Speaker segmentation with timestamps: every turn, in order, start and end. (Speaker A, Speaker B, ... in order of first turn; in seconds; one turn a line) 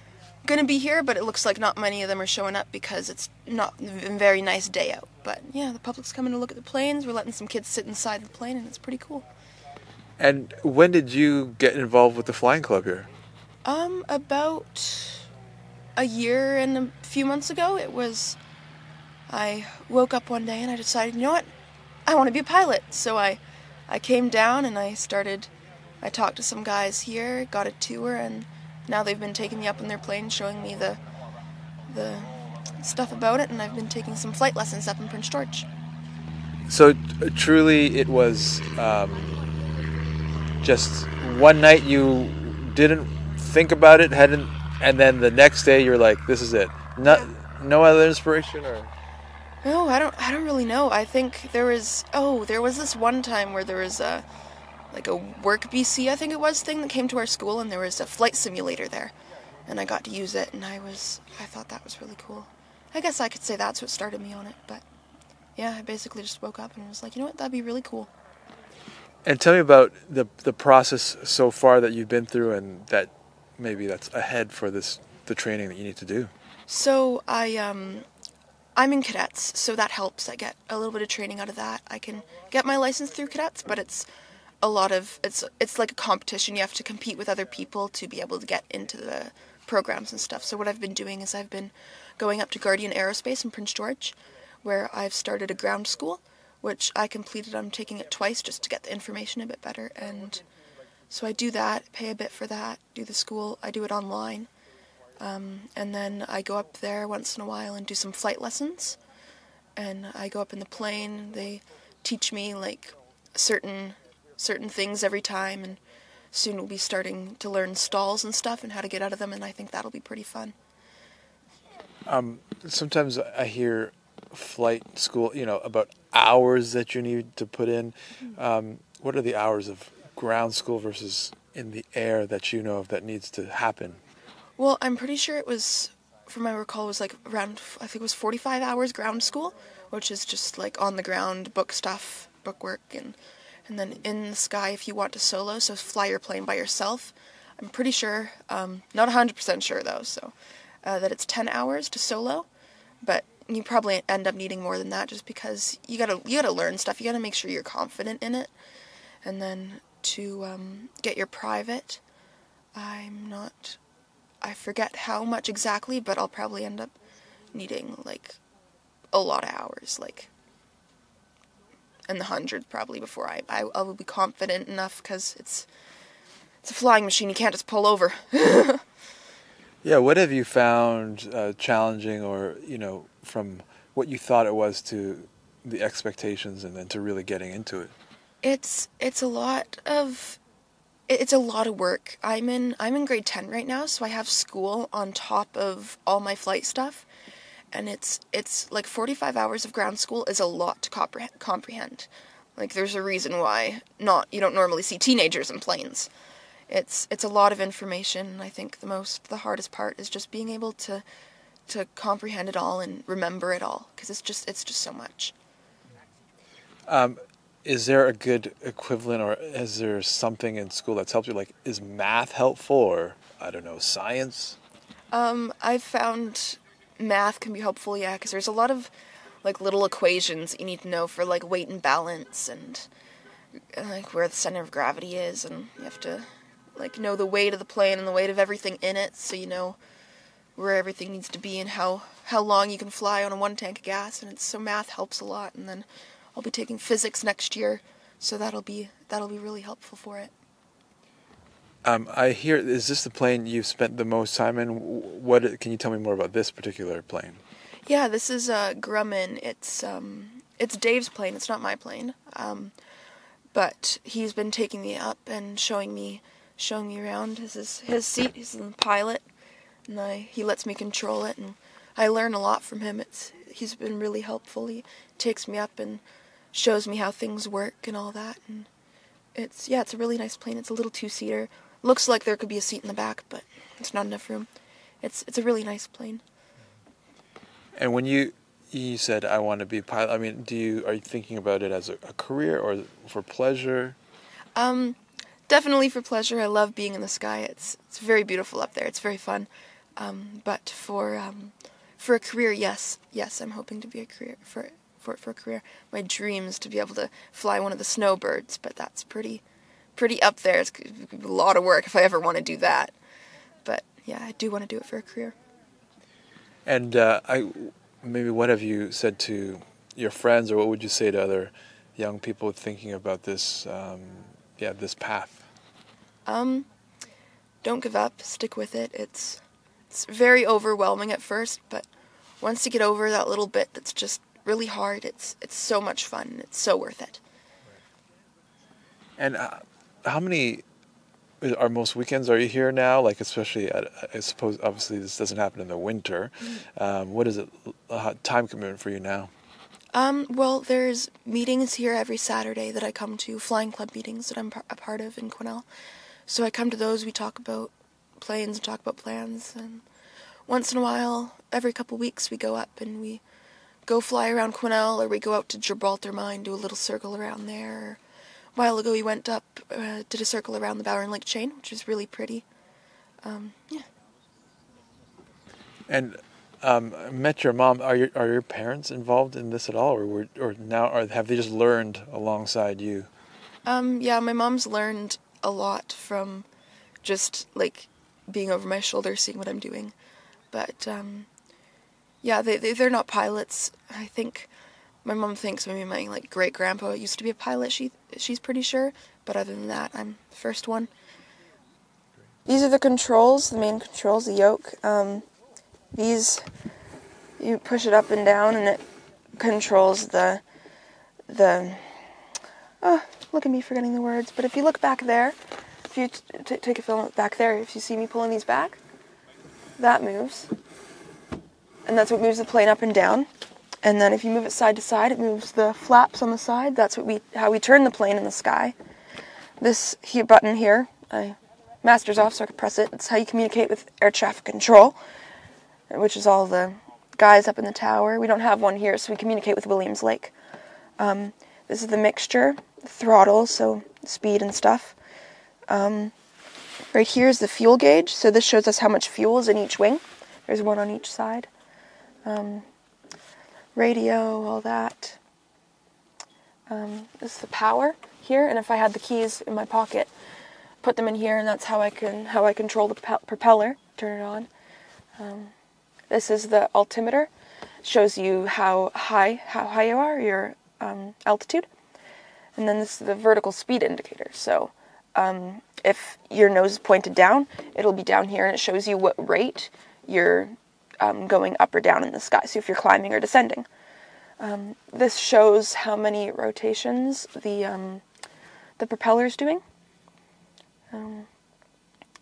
Speaker A: 0.5-9.2
Speaker B: 10.2-13.1
Speaker A: 13.6-15.2
Speaker A: 16.0-18.4
Speaker A: 19.3-21.5
Speaker A: 22.1-25.5
Speaker A: 26.0-31.0
Speaker A: 31.9-35.7
Speaker B: 36.7-39.4
Speaker B: 40.6-48.9
Speaker A: 49.6-54.2
Speaker A: 54.9-59.1
Speaker A: 59.7-64.8
Speaker A: 65.6-68.1
Speaker B: 69.2-76.3
Speaker A: 76.7-78.1
Speaker A: 78.8-84.1
Speaker A: 84.6-100.4
Speaker A: 101.1-104.5
Speaker A: 105.2-109.0
Speaker A: 109.8-115.8
Speaker A: 116.3-120.5
Speaker B: 122.1-134.0
Speaker A: 134.6-152.5
Speaker A: 153.0-158.5
Speaker A: 159.2-162.0
Speaker A: 162.8-163.8
Speaker A: 164.4-166.9
Speaker A: 167.5-168.4
Speaker A: 169.1-170.3
Speaker A: 172.1-175.7
Speaker A: 176.6-178.8
Speaker B: 179.8-187.9
Speaker A: 188.4-190.4
Speaker A: 191.1-197.1
Speaker A: 197.7-206.1
Speaker A: 206.7-211.0
Speaker A: 211.7-215.3
Speaker B: 216.9-224.6
Speaker A: 225.1-228.9
Speaker A: 229.4-232.9
Speaker A: 233.7-239.8
Speaker A: 240.6-250.3
Speaker B: 251.8-257.4
Speaker A: 257.9-262.7
Speaker A: 263.5-269.2
Speaker A: 269.9-276.0
Speaker A: 276.5-278.7
Speaker A: 279.3-284.5
Speaker A: 285.0-286.2
Speaker B: 287.8-294.0
Speaker A: 294.6-309.4
Speaker A: 309.9-312.9
Speaker A: 313.6-315.4
Speaker B: 316.6-325.5
Speaker A: 326.2-326.7
Speaker A: 327.6-331.9
Speaker A: 332.4-337.2
Speaker B: 339.2-340.6
Speaker B: 341.4-349.3
Speaker A: 349.9-355.6
Speaker A: 356.3-359.8
Speaker A: 360.5-363.2
Speaker A: 363.9-368.0
Speaker A: 368.6-372.4
Speaker A: 373.2-373.9
Speaker B: 375.9-383.1
Speaker A: 383.6-386.5
Speaker A: 387.0-389.9
Speaker A: 390.5-391.3
Speaker A: 392.2-394.5
Speaker A: 395.0-400.9
Speaker A: 402.5-405.2
Speaker A: 405.9-406.4
Speaker A: 407.4-408.8
Speaker A: 409.4-410.4
Speaker A: 411.3-412.0
Speaker A: 412.8-415.4
Speaker A: 415.9-418.8
Speaker A: 419.8-420.5
Speaker A: 421.9-423.3
Speaker A: 423.8-428.8
Speaker A: 429.6-435.0
Speaker A: 435.9-440.3
Speaker A: 441.0-444.9
Speaker A: 445.7-446.1
Speaker A: 446.9-451.5
Speaker A: 452.2-452.7
Speaker A: 453.8-455.2
Speaker A: 456.7-460.1
Speaker A: 460.8-464.5
Speaker A: 465.2-465.5
Speaker A: 466.1-467.3
Speaker A: 467.8-471.7
Speaker A: 472.6-483.7
Speaker A: 484.4-488.0
Speaker A: 488.8-489.6
Speaker A: 490.9-491.3